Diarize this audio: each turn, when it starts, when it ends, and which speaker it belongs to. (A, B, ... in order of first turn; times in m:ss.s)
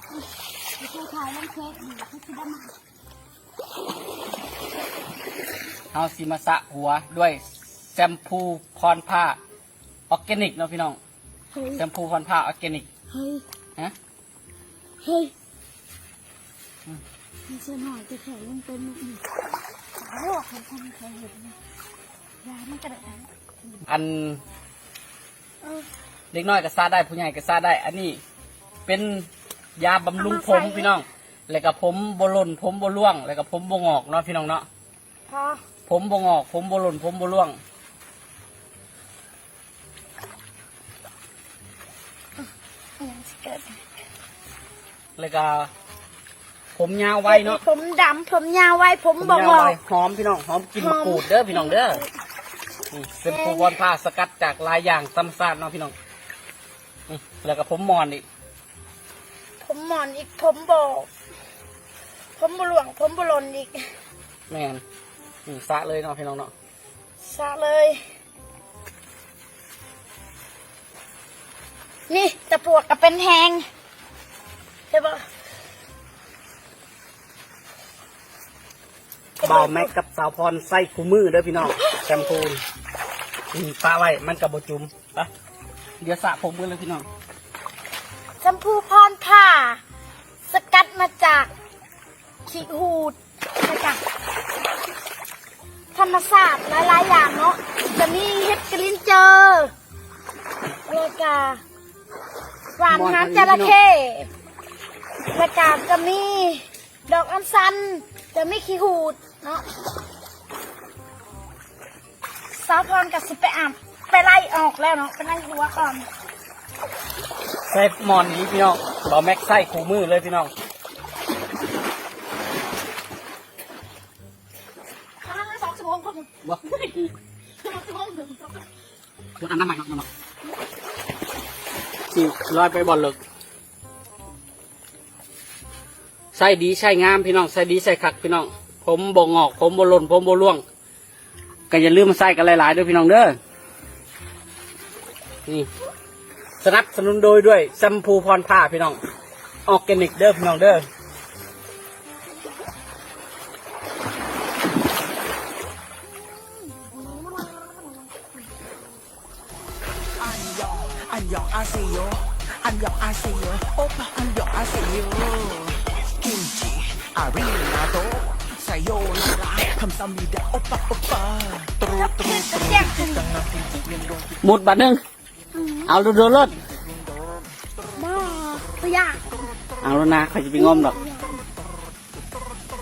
0:00.8-0:02.7 A
0:05.9-0:09.4 B
0:10.1-0:11.0 B
0:11.5-0:11.8 A
0:11.7-0:12.9 B
0:13.1-0:13.4 A
0:15.0-0:15.3 A
0:17.5-0:19.2 A
0:20.0-0:21.6 A
0:22.4-0:23.8 A
0:23.9-0:24.4 B
0:26.3-0:28.2 B
0:28.8-0:34.7 B
0:30.2-0:31.0 A
0:35.3-0:35.6 A
0:35.9-0:37.6 B
0:43.0-0:43.8 A
0:45.2-0:45.7 B
0:46.8-0:47.6 B
0:47.2-0:49.8 A
0:49.2-0:52.0 B
0:50.8-0:52.1 A
0:52.9-0:55.9 B
0:53.2-0:53.8 A
0:57.1-0:58.2 B
0:59.6-1:01.1 A
1:02.4-1:03.9 A
1:04.5-1:04.8 B
1:05.4-1:06.5 B
1:07.2-1:08.0 A
1:12.1-1:13.6 A
1:14.9-1:15.2 A
1:19.4-1:19.9 A
1:19.4-1:22.6 B
1:21.8-1:22.4 A
1:23.5-1:25.3 B
1:26.0-1:27.1 B
1:28.4-1:29.8 A
1:30.5-1:31.5 A
1:32.4-1:34.0 A
1:35.9-1:39.7 A
1:40.9-1:41.6 A
1:42.8-1:44.3 A
1:42.9-1:43.8 B
1:45.3-1:49.6 A
1:52.5-1:56.1 A
1:57.7-2:00.5 B
2:05.2-2:06.3 A
2:06.4-2:07.1 B
2:07.6-2:08.6 A
2:09.4-2:10.1 B
2:12.1-2:13.2 B
2:16.3-2:20.6 B
2:21.7-2:23.4 B
2:26.6-2:29.0 B
2:29.7-2:30.9 B
2:36.7-2:38.3 A
2:40.2-2:54.3 C
2:51.8-2:53.3 A
2:54.4-2:55.0 B
2:55.5-2:55.9 A
2:55.9-2:56.6 B
2:58.0-2:59.2 A
2:59.8-3:01.0 B
3:00.6-3:01.4 A